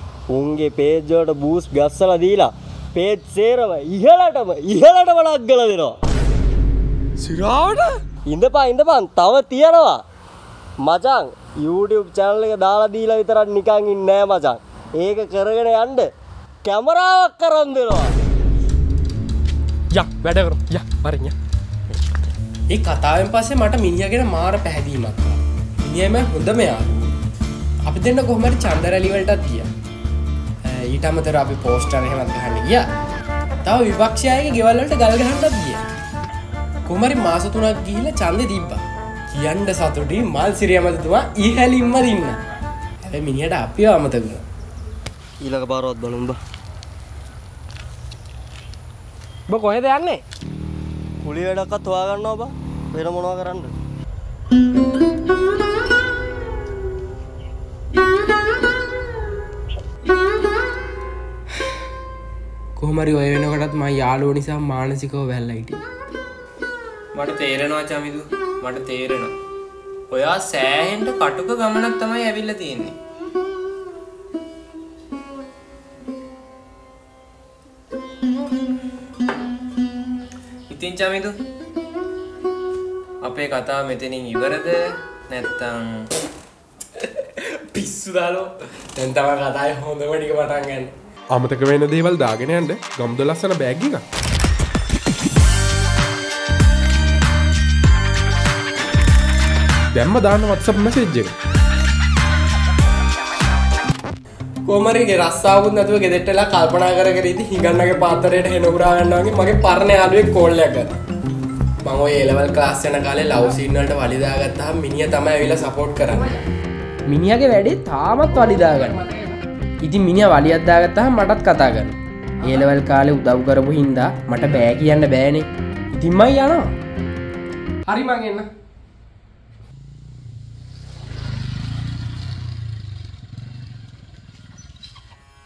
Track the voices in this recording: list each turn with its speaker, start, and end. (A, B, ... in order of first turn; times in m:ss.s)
0:00.3-0:06.0 A
0:07.2-0:08.0 B
0:08.3-0:10.0 A
0:10.8-0:16.1 A
0:16.6-0:18.2 A
0:19.9-0:21.4 B
0:22.7-0:27.2 B
0:27.9-0:29.7 B
0:30.6-0:32.9 B
0:33.6-0:35.8 B
0:36.9-0:42.4 B
0:43.0-0:44.4 B
0:45.4-0:46.4 A
0:49.5-0:50.2 B
0:51.2-0:53.7 A
1:02.8-1:05.8 B
1:07.2-1:09.3 C
1:10.1-1:13.0 C
1:20.7-1:21.3 C
1:23.2-1:26.1 C
1:27.0-1:30.9 B
1:31.3-1:33.5 D
1:31.5-1:34.0 B
1:40.0-1:41.1 D
1:40.1-1:40.3 B
1:44.7-1:51.0 B
1:51.8-1:56.4 B
1:57.1-2:06.8 B
2:07.9-2:08.5 B